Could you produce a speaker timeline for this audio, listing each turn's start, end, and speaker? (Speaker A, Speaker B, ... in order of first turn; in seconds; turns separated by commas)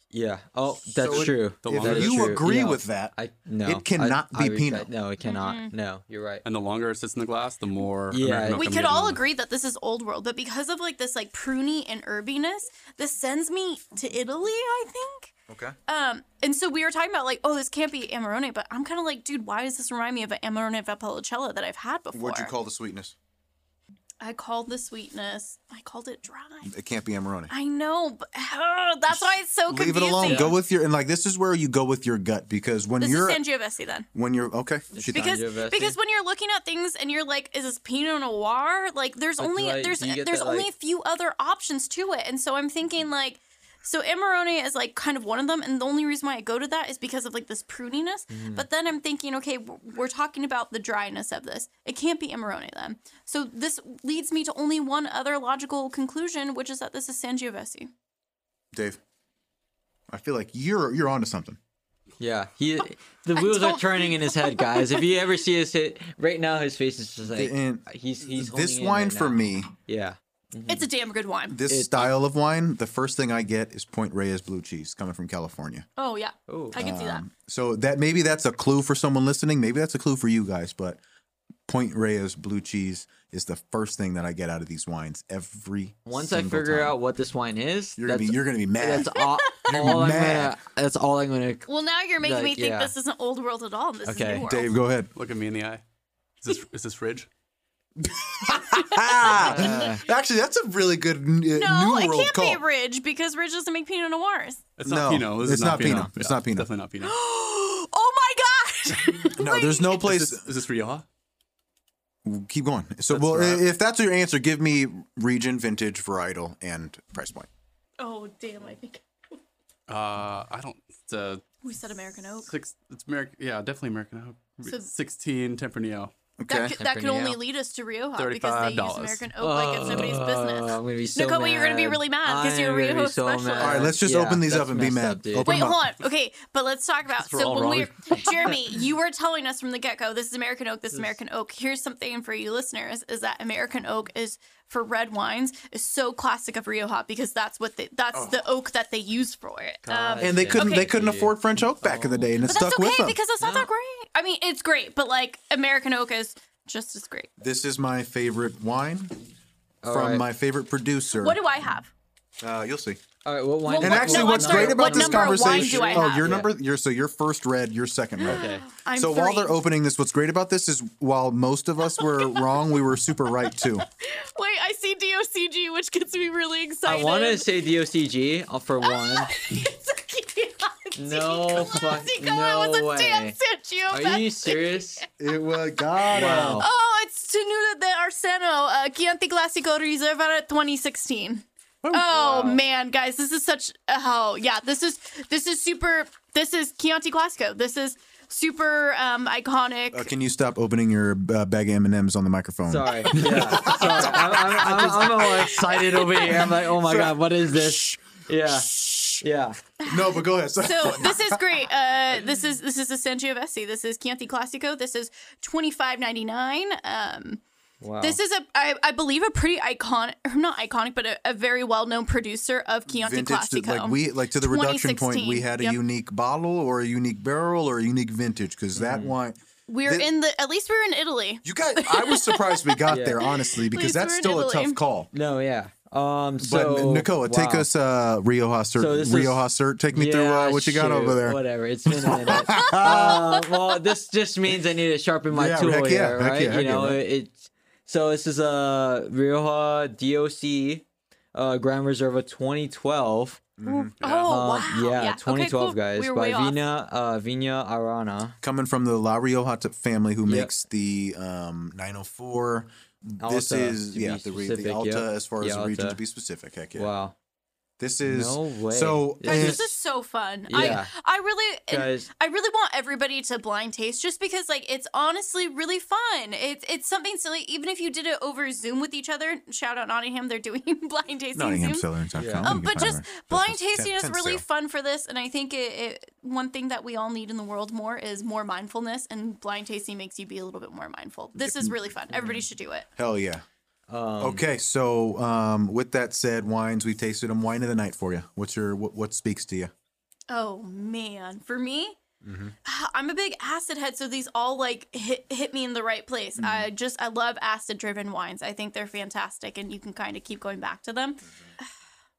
Speaker A: 0.1-6.4, Speaker B: 1.0-3.1, Speaker C: 1.1-2.4, Speaker B: 3.6-4.9, Speaker D: 5.2-5.7, Speaker C: 6.5-9.2, Speaker A: 8.1-8.7, Speaker D: 8.6-15.3, Speaker B: 15.5-15.8, Speaker D: 15.9-22.5, Speaker B: 22.1-23.1, Speaker D: 24.2-26.7, Speaker B: 26.7-27.5, Speaker D: 27.5-30.6, Speaker B: 29.1-33.4, Speaker A: 30.2-30.5, Speaker D: 33.0-34.1, Speaker B: 34.1-35.4, Speaker A: 34.9-36.0, Speaker D: 35.1-57.9, Speaker A: 39.4-40.7, Speaker A: 48.3-48.7, Speaker B: 58.7-59.0, Speaker B: 60.1-61.6, Speaker A: 62.2-70.9, Speaker D: 63.4-65.1, Speaker B: 67.3-69.7, Speaker D: 70.7-71.7, Speaker B: 71.5-75.9, Speaker A: 71.7-72.1, Speaker D: 76.0-77.2, Speaker A: 76.5-76.8, Speaker B: 76.8-81.0, Speaker B: 81.7-87.0, Speaker A: 86.0-91.7, Speaker B: 88.0-90.5, Speaker D: 89.2-90.0, Speaker D: 91.7-94.7, Speaker A: 92.2-92.9, Speaker A: 94.1-94.5, Speaker B: 94.2-95.1, Speaker C: 95.2-95.8, Speaker C: 96.4-97.3, Speaker B: 98.0-102.6, Speaker D: 98.4-99.8, Speaker A: 99.3-100.1, Speaker D: 101.5-104.7, Speaker C: 104.8-107.2, Speaker B: 104.8-106.7, Speaker D: 107.0-110.0, Speaker B: 109.3-110.5, Speaker C: 109.8-111.1, Speaker B: 112.2-117.5, Speaker C: 113.1-113.7, Speaker D: 118.0-119.0, Speaker C: 119.9-121.4, Speaker D: 121.6-122.5, Speaker C: 122.4-126.1, Speaker B: 126.4-126.8, Speaker D: 126.5-133.9, Speaker A: 126.7-127.4, Speaker C: 128.2-129.3, Speaker A: 129.4-135.6, Speaker B: 133.6-135.8, Speaker D: 135.4-150.9, Speaker C: 137.1-138.6, Speaker B: 148.1-148.4, Speaker A: 149.8-152.5, Speaker B: 150.2-153.2, Speaker D: 152.4-157.3, Speaker A: 153.4-153.7, Speaker B: 157.4-159.2, Speaker A: 159.8-160.3, Speaker B: 159.9-161.4, Speaker D: 161.1-161.9, Speaker B: 162.4-163.0, Speaker A: 163.2-166.5, Speaker D: 163.7-166.3, Speaker B: 163.8-173.9, Speaker D: 168.2-169.6, Speaker A: 168.2-168.7, Speaker D: 172.0-172.6, Speaker D: 173.2-177.5, Speaker A: 176.8-179.3, Speaker D: 178.8-185.1, Speaker A: 181.0-183.4, Speaker A: 183.9-185.1, Speaker B: 185.2-186.6, Speaker A: 186.1-186.7, Speaker D: 186.2-200.1, Speaker A: 192.1-192.6, Speaker B: 199.9-209.2, Speaker A: 202.7-209.6, Speaker D: 203.5-206.5, Speaker D: 209.8-217.4, Speaker B: 209.8-211.4, Speaker A: 217.8-218.2, Speaker D: 218.0-225.8, Speaker B: 222.9-230.1, Speaker A: 228.8-229.2, Speaker D: 229.7-234.8, Speaker B: 231.4-235.1, Speaker A: 232.9-233.2, Speaker A: 235.1-237.7, Speaker B: 236.4-243.3, Speaker A: 238.8-253.4, Speaker D: 242.6-243.5, Speaker B: 245.3-247.0, Speaker B: 253.6-253.9, Speaker D: 253.6-256.6, Speaker C: 254.0-254.3, Speaker A: 254.3-258.4, Speaker B: 258.4-266.9, Speaker A: 260.3-260.5, Speaker A: 263.2-266.0, Speaker A: 266.8-267.1, Speaker B: 267.8-269.7, Speaker A: 268.0-269.7, Speaker D: 269.3-281.9, Speaker A: 270.5-270.9, Speaker A: 271.7-272.1, Speaker B: 281.3-284.4, Speaker A: 282.1-282.5, Speaker D: 282.4-292.9, Speaker B: 291.4-291.8, Speaker A: 292.1-292.5, Speaker B: 293.0-293.4, Speaker A: 293.9-294.4, Speaker B: 294.2-299.7, Speaker D: 300.3-302.0, Speaker B: 302.2-302.6, Speaker D: 302.6-311.2, Speaker B: 306.4-306.7